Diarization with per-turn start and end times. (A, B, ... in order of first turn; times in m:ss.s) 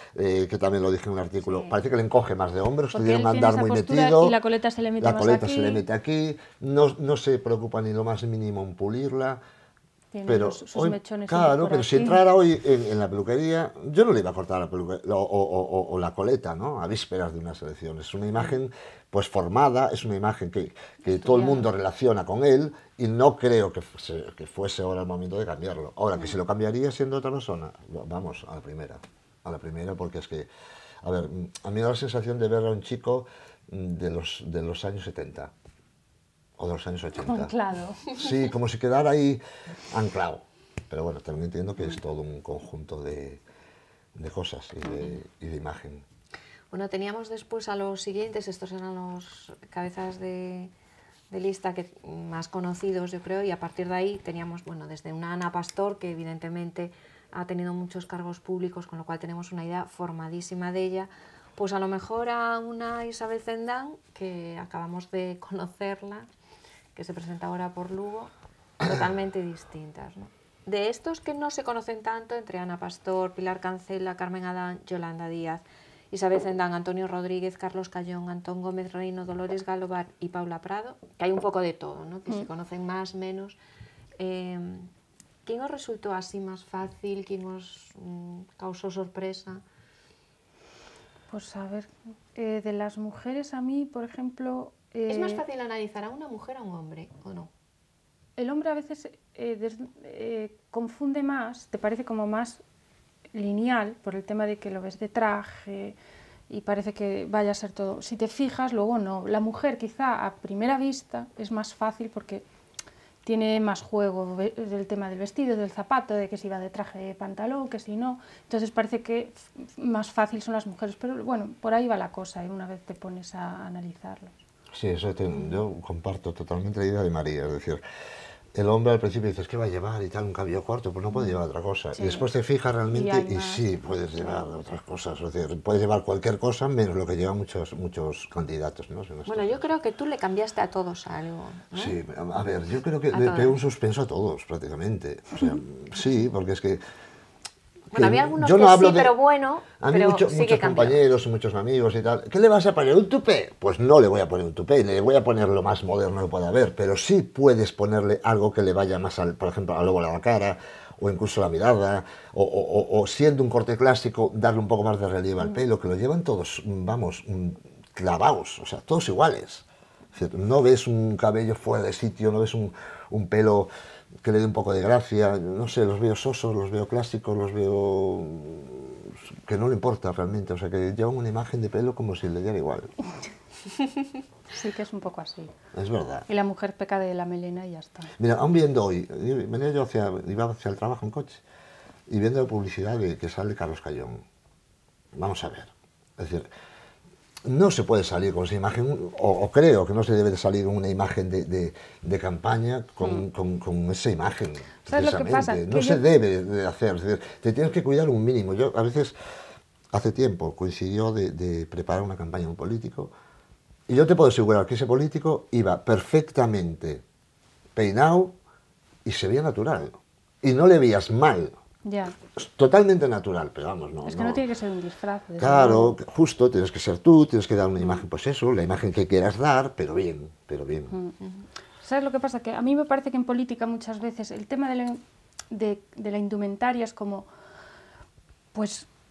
0:00.2-0:04.4 A
0:01.4-0:01.7 B
0:02.9-0:05.8 B
0:05.0-0:09.4 A
0:10.1-0:12.2 B
0:10.2-0:30.5 A
0:21.3-0:21.6 B
0:31.0-0:35.5 A
0:36.6-0:37.5 A
0:37.2-0:38.2 B
0:38.1-0:39.4 A
0:39.9-0:43.4 A
0:44.2-0:46.0 A
0:44.9-0:45.2 C
0:46.7-0:50.7 C
0:51.3-1:06.3 C
1:06.9-1:23.6 C
1:24.2-1:24.9 C
1:25.4-1:29.6 C
1:31.3-1:35.4 B
1:35.1-1:37.5 C
1:38.4-1:42.6 B
1:43.3-1:46.0 B
1:46.5-1:52.4 B
1:53.2-2:04.4 B
2:04.7-2:07.8 A
2:08.5-2:19.6 A
2:11.9-2:12.3 B
2:12.9-2:14.5 B
2:19.2-2:21.9 C
2:21.7-2:26.8 A
2:23.1-2:23.6 C
2:27.9-2:31.0 C
2:27.9-2:29.1 A
2:29.8-2:53.7 A
2:54.2-3:02.9 A
3:04.5-3:05.5 B
3:05.7-3:06.3 A
3:06.3-3:08.1 B
3:08.2-3:11.4 A
3:12.1-3:14.2 A
3:15.1-3:16.5 A
3:17.4-3:29.1 A
3:24.8-3:26.0 B
3:29.9-3:33.1 A
3:33.9-3:37.0 A
3:37.8-3:38.3 A
3:39.0-3:41.6 A
3:41.8-3:42.1 B
3:42.3-3:44.4 A
3:44.0-3:46.0 B
3:45.4-3:51.0 A
3:50.9-3:51.2 B
3:51.8-3:57.2 B
3:58.5-3:58.9 B